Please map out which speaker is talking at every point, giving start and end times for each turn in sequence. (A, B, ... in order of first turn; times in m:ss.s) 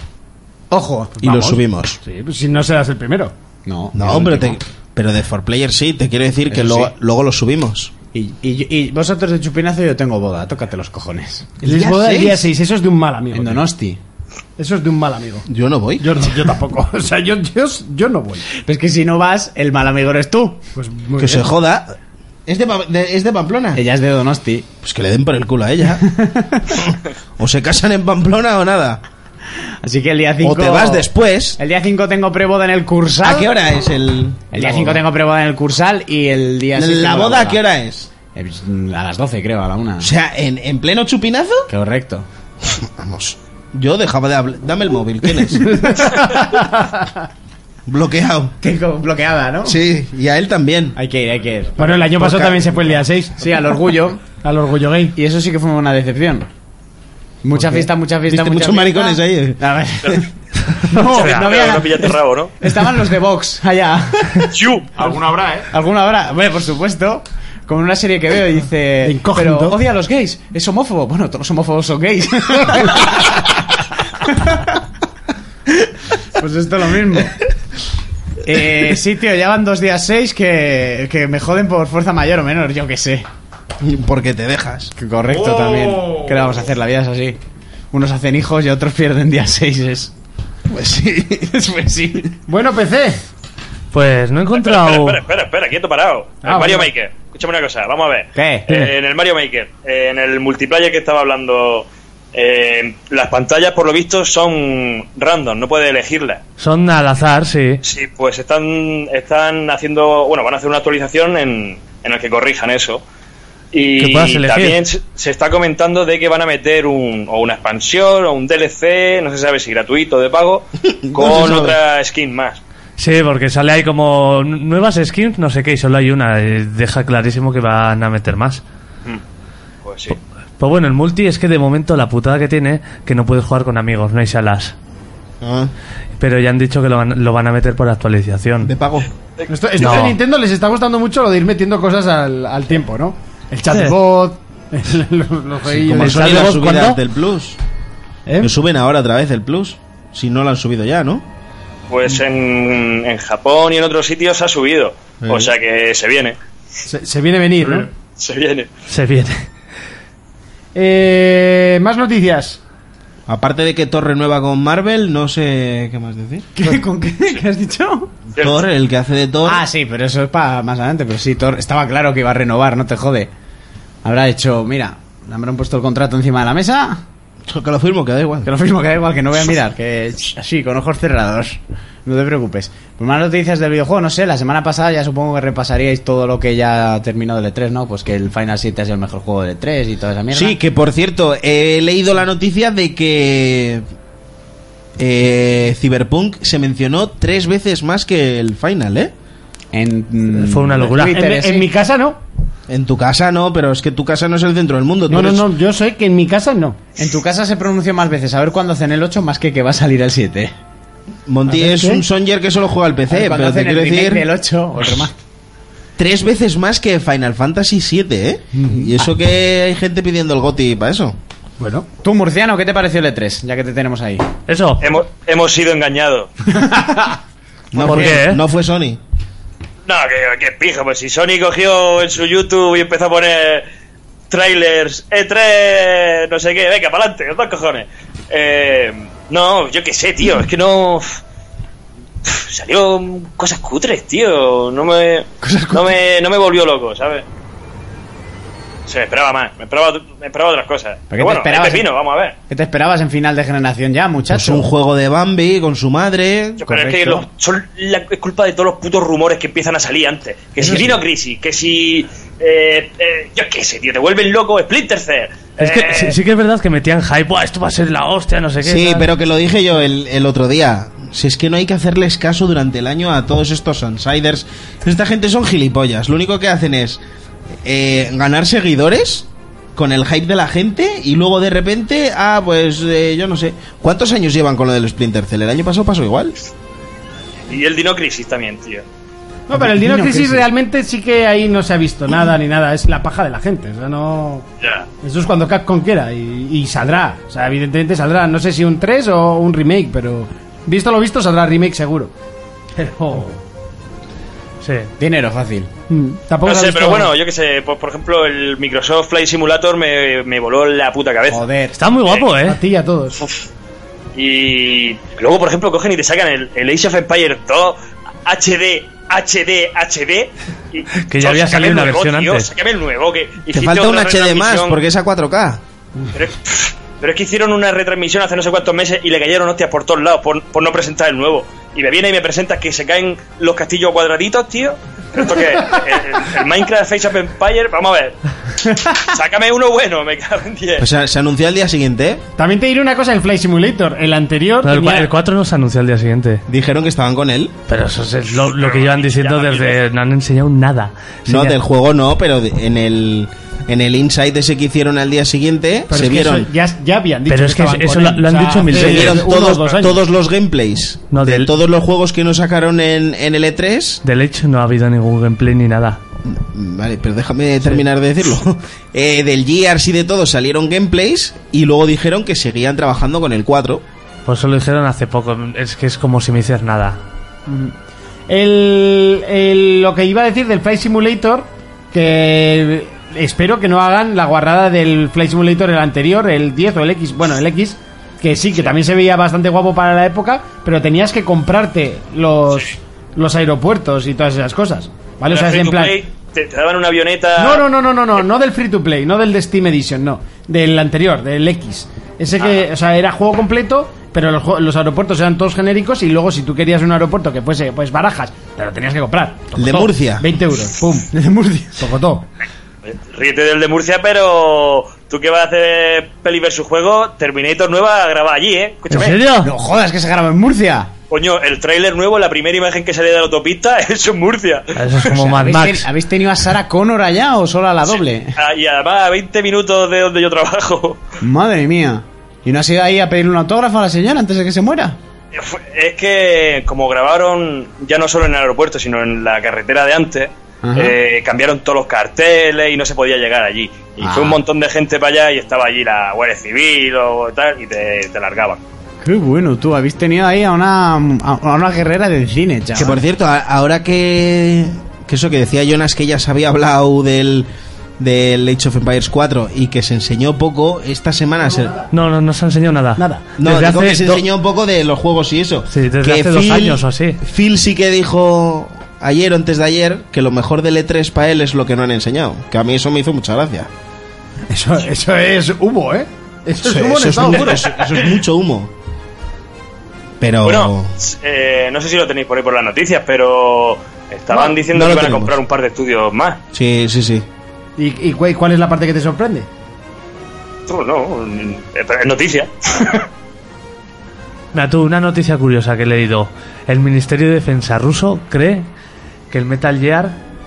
0:00.7-0:01.6 A
0:01.2-0:02.0 B
0:02.0-0:03.3 C
0:03.7-0:04.6 A
0:03.9-0:07.9 B
0:06.5-0:06.9 A
0:08.1-0:11.5 A
0:11.6-0:12.5 B
0:11.6-0:13.6 C
0:13.3-0:14.0 A
0:14.6-0:15.5 C
0:15.5-0:16.1 B
0:16.0-0:18.5 C
0:18.6-0:20.6 A
0:20.8-0:21.5 C
0:21.2-0:22.0 B
0:22.5-0:23.8 B
0:23.7-0:24.7 A
0:24.8-0:26.0 B
0:26.1-0:26.7 A
0:26.7-0:29.0 B
0:29.8-0:33.5 A
0:30.4-0:31.6 B
0:33.2-0:35.0 B
0:34.5-0:37.6 A
0:36.8-0:38.1 B
0:38.3-0:40.1 A
0:40.0-0:41.7 B
0:41.7-0:42.3 A
0:42.7-0:45.8 B
0:45.6-0:47.1 C
0:47.9-0:48.5 B
0:48.6-0:49.8 A
0:49.6-0:51.0 B
0:51.0-0:51.9 A
0:51.8-0:53.8 C
0:52.2-0:52.7 B
0:53.4-0:54.2 A
0:54.4-0:55.2 C
0:55.2-0:56.5 A
0:57.4-1:04.5 A
0:58.3-0:59.6 B
1:01.0-1:01.4 D
1:01.1-1:02.6 E
1:04.5-1:04.9 E
1:05.0-1:05.7 F
1:05.7-1:13.5 A
1:09.0-1:09.8 C
1:14.2-1:14.8 A
1:16.4-1:17.4 A
1:18.4-1:23.3 A
1:23.8-1:24.9 B
1:25.0-1:27.4 A
1:25.3-1:26.6 F
1:27.9-1:30.1 A
1:30.8-1:32.4 A
1:32.5-1:33.2 C
1:33.9-1:35.2 D
1:34.6-1:46.4 E
1:36.4-1:36.9 C
1:38.4-1:38.7 A
1:46.6-1:47.8 D
1:47.8-1:53.0 E
1:53.7-2:02.6 E
1:54.0-1:54.8 D
2:00.9-2:01.8 B
2:03.0-2:08.6 D
2:09.8-2:10.2 E
2:10.6-2:14.8 D
2:15.4-2:15.7 B
2:16.2-2:18.7 D
2:18.6-2:19.1 B
2:19.5-2:26.5 C
2:19.8-2:20.2 D
2:25.7-2:27.6 B
2:26.0-2:27.0 D
2:28.3-2:28.5 C
2:28.4-2:31.2 B
2:31.9-2:36.4 E
2:35.2-2:35.5 B
2:36.9-2:37.9 C
2:38.2-2:38.7 E
2:38.9-2:39.5 D
2:40.8-2:42.6 C
2:43.3-2:46.5 B
2:46.6-2:48.1 A
2:48.4-2:48.6 E
2:48.4-2:49.6 B
2:49.5-2:53.3 A
2:54.0-2:57.0 A
2:57.5-2:58.5 B
2:58.4-3:10.6 A
3:10.3-3:13.8 B
3:15.0-3:19.1 B
3:19.7-3:21.7 A
3:20.4-3:21.2 D
3:21.1-3:22.2 C
3:22.7-3:25.5 B
3:25.1-3:26.8 C
3:27.0-3:30.5 A
3:31.3-3:34.3 B
3:31.5-3:32.0 C
3:33.1-3:35.1 A
3:36.0-3:41.2 B
3:41.6-3:41.9 C
3:42.0-3:44.3 A
3:44.5-3:45.0 D
3:44.8-3:46.3 E
3:46.6-3:47.2 A
3:47.7-3:49.0 B
3:47.8-3:48.4 D
3:49.9-3:53.7 E
3:54.3-4:01.2 E
4:02.2-4:07.2 E
4:05.4-4:05.9 A
4:08.9-4:12.4 E
4:11.1-4:11.9 A
4:12.5-4:14.7 A
4:14.3-4:16.6 B
4:16.6-4:26.2 E
4:16.6-4:17.3 A
4:20.6-4:21.0 A
4:25.6-4:29.1 D
4:28.6-4:37.0 B
4:37.6-4:46.4 B
4:47.5-4:48.8 E
4:49.5-4:54.4 C
4:49.5-4:50.4 A
4:54.6-4:54.9 E
4:55.0-5:02.1 C
5:02.8-5:03.4 C
5:04.6-5:04.9 D
5:05.0-5:05.7 A
5:05.9-5:07.1 C
5:06.4-5:11.4 E
5:11.3-5:11.8 A
5:11.7-5:12.6 D
5:12.4-5:13.2 C
5:14.2-5:24.8 E
5:21.1-5:22.5 D
5:23.5-5:25.6 B
5:26.1-5:40.9 E
5:40.8-5:42.2 B
5:42.4-5:45.1 C
5:44.6-5:46.4 D
5:46.5-5:47.5 B
5:47.7-5:51.6 D
5:48.4-5:49.8 E
5:51.3-5:56.5 B
5:55.9-6:00.0 C
5:57.3-5:59.5 D
5:58.7-6:04.0 B
6:01.1-6:01.5 D
6:04.0-6:06.0 D
6:06.3-6:13.8 B
6:14.3-6:17.0 D
6:17.5-6:17.7 C
6:18.3-6:36.0 C
6:35.3-6:37.6 E
6:37.4-6:51.1 C
6:49.6-6:50.3 B
6:51.1-6:51.8 A
6:51.8-6:52.3 C
6:52.9-6:59.2 E
6:58.9-6:59.5 D
6:59.4-7:00.9 A
7:01.1-7:05.1 E
7:04.8-7:05.9 D
7:05.1-7:08.4 A
7:07.9-7:11.0 E
7:11.2-7:15.0 A
7:15.3-7:28.6 E
7:20.6-7:21.0 A
7:24.0-7:24.4 A
7:29.0-7:33.0 A
7:32.8-7:37.5 B
7:38.0-7:41.8 B
7:41.9-7:44.2 D
7:43.0-7:43.3 C
7:43.4-7:53.7 B
7:45.7-7:47.2 D
7:54.5-7:57.7 C
7:56.6-7:58.7 B
8:00.2-8:00.9 B
8:00.4-8:06.4 E
8:04.3-8:05.4 B
8:06.5-8:07.2 B
8:07.8-8:09.5 C
8:10.7-8:13.1 E
8:14.5-8:18.7 D
8:19.3-8:20.2 D